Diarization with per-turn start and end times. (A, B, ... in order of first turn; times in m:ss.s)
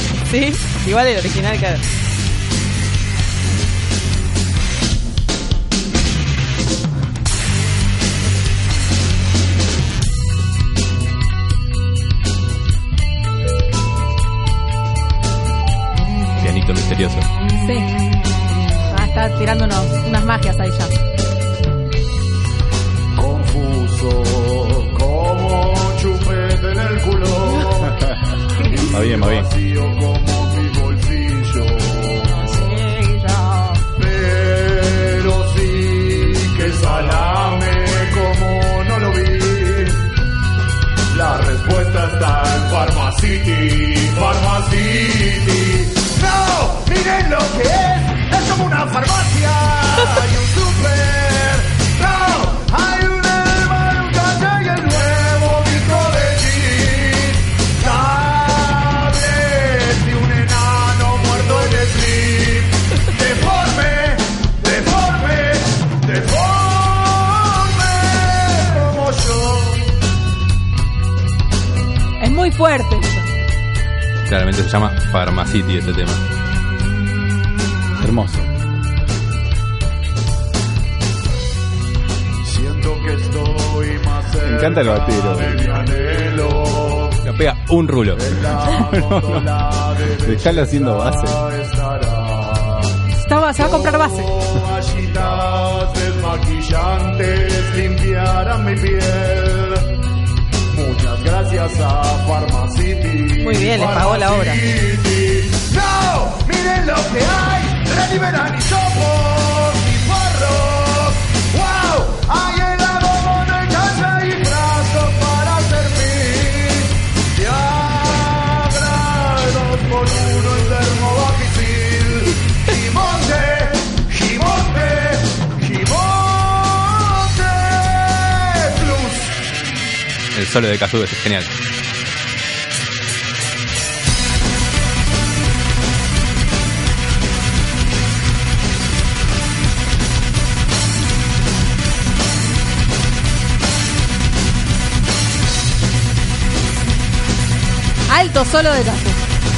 0:00.3-0:01.8 A
0:16.4-0:17.3 B
0:17.6-0:17.9 C
0:18.9-0:20.9 C
0:23.1-0:28.1 D
0:28.6-0:32.5 D
0:28.9-0:29.5 E
0:32.4-0:33.8 C
0:33.9-0:40.0 D
0:41.1-1:10.0 D
1:12.2-1:13.2 C
1:14.3-1:16.2 B
1:18.0-1:18.5 E
1:22.4-1:27.2 D
1:24.4-1:25.6 E
1:27.2-1:28.3 B
1:28.1-1:32.9 D
1:28.7-1:29.5 E
1:30.2-1:31.4 E
1:33.1-1:34.3 C
1:33.5-1:39.9 D
1:40.7-2:09.4 D
1:43.4-1:44.6 A
2:10.3-2:11.5 B
2:28.1-2:29.2 C